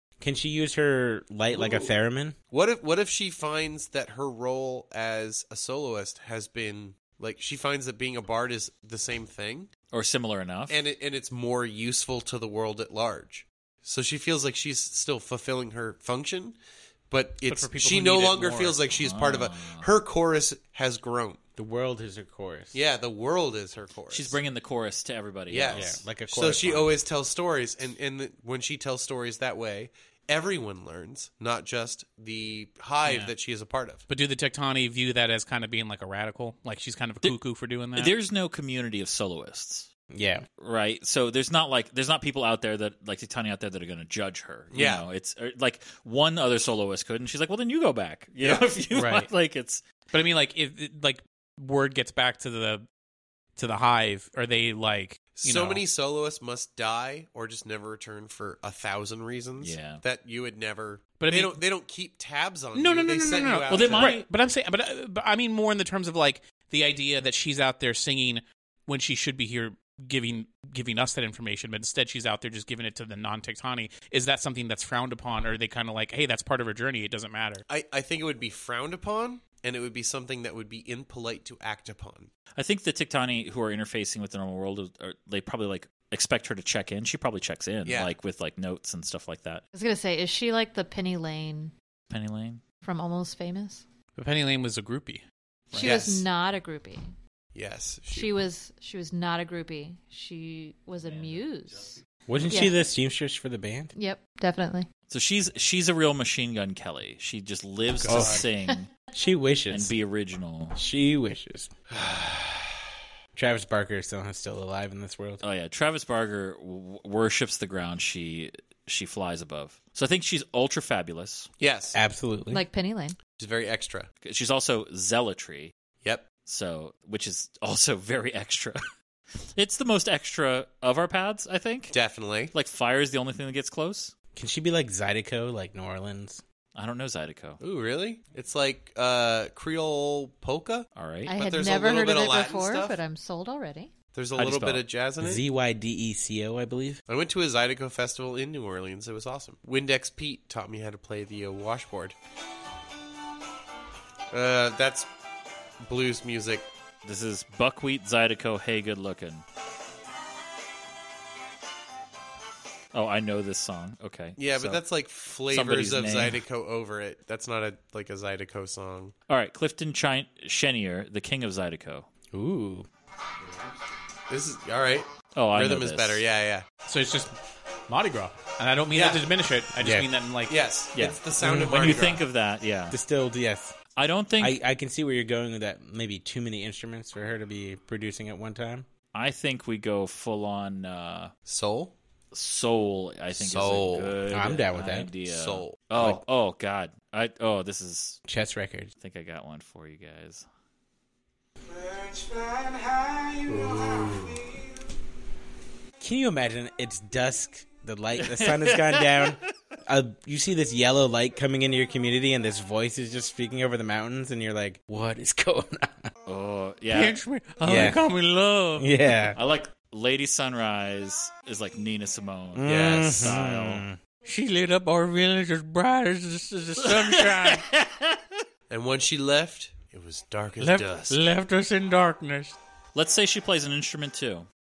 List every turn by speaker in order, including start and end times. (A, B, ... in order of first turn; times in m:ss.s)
0:00.2-0:02.4 A
0:01.5-0:01.9 B
0:02.5-0:09.7 B
0:09.9-0:10.8 C
0:10.7-0:16.6 B
0:17.1-0:21.4 B
0:17.4-0:18.8 D
0:18.8-0:19.8 C
0:21.6-0:22.8 A
0:22.7-0:24.4 B
0:24.1-0:26.0 C
0:25.5-0:34.0 B
0:25.7-0:27.0 A
0:33.0-0:33.3 D
0:34.1-0:38.1 D
0:37.9-0:39.9 C
0:40.1-0:40.4 A
0:40.6-0:49.8 C
0:44.7-0:45.0 B
0:48.4-0:48.7 B
0:48.9-0:49.3 D
0:50.1-0:52.8 D
0:53.6-0:55.8 D
0:55.3-1:04.2 B
0:59.6-1:00.0 C
1:01.2-1:01.6 D
1:02.7-1:17.6 D
1:03.7-1:04.3 C
1:17.7-1:22.3 B
1:22.6-1:29.6 C
1:27.8-1:28.1 B
1:29.7-1:31.7 E
1:32.1-1:32.6 C
1:32.8-1:33.8 E
1:34.2-1:36.2 D
1:35.8-1:37.1 E
1:35.8-1:36.2 B
1:37.5-1:38.4 B
1:38.1-1:42.8 E
1:41.1-1:41.4 C
1:42.3-1:43.9 A
1:43.9-1:44.9 E
1:45.1-1:48.9 C
1:48.0-1:48.4 D
1:48.0-1:48.5 A
1:49.1-1:49.9 A
1:49.7-1:50.8 C
1:50.7-1:51.7 A
1:51.9-1:52.8 B
1:53.3-1:55.4 A
1:55.4-2:01.5 C
2:01.6-2:02.0 B
2:01.9-2:02.6 A
2:02.5-2:03.2 E
2:03.3-2:04.1 B
2:04.2-2:05.7 C
2:06.4-2:08.8 C
2:09.6-2:11.9 C
2:11.9-2:12.5 B
2:12.5-2:14.1 C
2:14.3-2:16.4 A
2:16.7-2:17.6 C
2:17.6-2:23.0 B
2:20.9-2:21.3 C
2:21.2-2:23.9 E
2:24.1-2:25.4 B
2:24.4-2:24.8 C
2:25.2-2:27.0 A
2:27.1-2:32.2 B
2:34.3-2:35.1 B
2:35.8-2:36.6 B
2:37.0-2:39.4 C
2:42.9-2:44.8 C
2:44.4-2:49.1 B
2:45.5-2:46.4 C
2:49.3-2:52.1 C
2:52.3-2:52.9 A
2:54.3-2:56.6 B
2:55.3-2:56.2 C
2:56.8-2:57.3 D
2:57.9-3:00.6 D
2:58.9-2:59.3 B
2:59.8-3:02.2 B
3:00.9-3:03.0 C
3:01.4-3:01.8 A
3:02.9-3:03.8 A
3:04.0-3:04.6 C
3:04.4-3:08.9 A
3:09.1-3:11.3 C
3:11.4-3:11.9 B
3:12.3-3:18.2 C
3:13.3-3:14.2 B
3:14.3-3:15.1 A
3:15.2-3:16.1 B
3:18.3-3:18.9 A
3:19.0-3:20.4 C
3:23.5-3:24.4 B
3:26.0-3:36.1 A
3:28.2-3:29.5 C
3:36.2-3:37.2 C
3:36.9-3:38.9 D
3:37.6-3:38.0 A
3:38.8-3:39.4 A
3:39.3-3:43.8 C
3:42.5-3:44.0 A
3:42.6-3:43.3 B
3:44.2-3:47.7 D
3:46.8-3:48.3 C
3:48.7-3:51.2 B
3:50.6-3:52.5 D
3:52.9-3:54.5 C